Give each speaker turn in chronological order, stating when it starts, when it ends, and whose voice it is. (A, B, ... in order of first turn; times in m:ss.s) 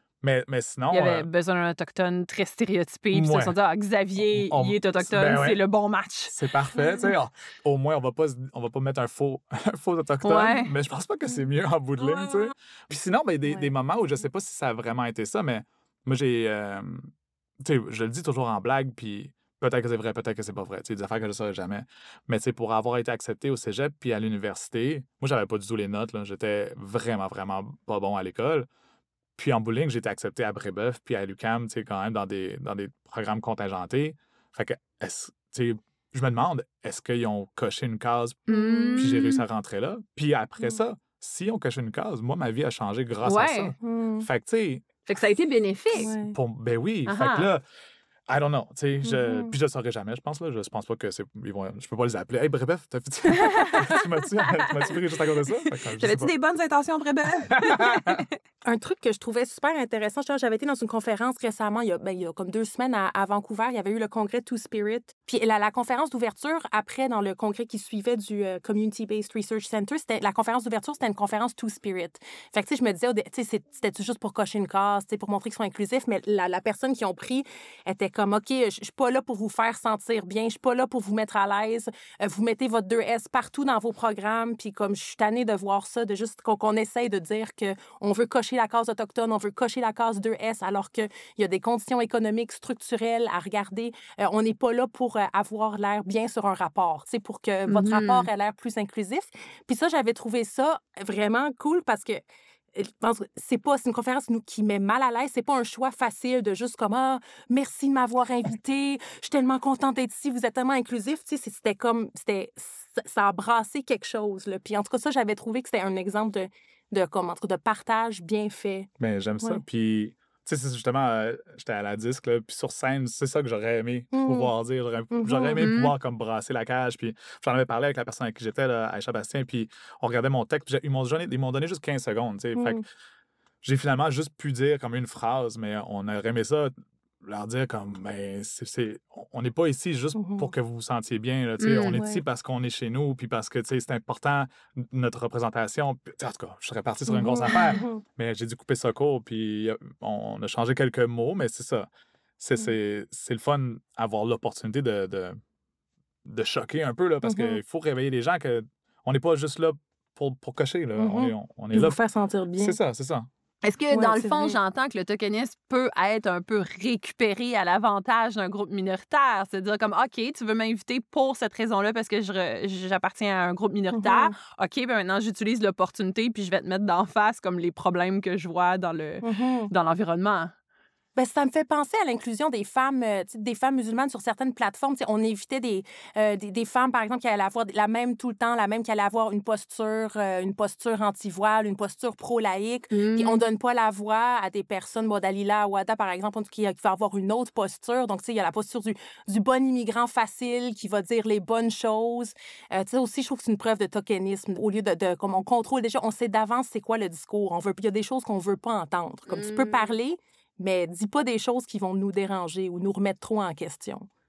0:00.2-0:01.3 A
0:00.9-0:06.4 B
0:03.1-0:03.6 A
0:04.2-0:05.6 A
0:06.3-0:17.1 A
0:10.2-0:10.7 B
0:17.6-0:28.7 A
0:29.4-0:44.9 A
0:38.5-0:39.4 B
0:38.5-0:39.2 C
0:43.2-0:43.7 B
0:43.8-0:44.3 C
0:45.1-0:46.1 B
0:46.0-0:46.4 C
0:46.0-0:47.6 A
0:47.1-0:47.5 B
0:48.3-0:56.3 A
0:49.0-0:49.5 C
0:53.3-0:54.0 B
0:54.6-0:54.8 B
0:56.0-0:58.3 B
0:57.5-0:58.2 A
0:58.6-1:42.2 C
1:37.7-1:38.3 B
1:42.7-1:58.9 C
1:59.0-2:12.8 A
2:04.1-2:04.5 C
2:05.1-2:05.7 C
2:05.6-2:05.9 B
2:12.6-2:12.8 C
2:13.6-2:35.4 A
2:20.2-2:20.5 C
2:21.6-2:22.0 B
2:21.9-2:22.2 C
2:27.1-2:28.0 C
2:36.2-2:42.0 A
2:37.2-2:37.6 C
2:41.0-2:42.8 C
2:42.6-2:43.3 A
2:43.6-3:00.5 B
2:43.9-2:44.6 C
2:53.9-2:54.3 C
2:59.2-2:59.7 C
3:01.2-3:34.1 C
3:12.9-3:13.4 B
3:29.3-3:30.0 B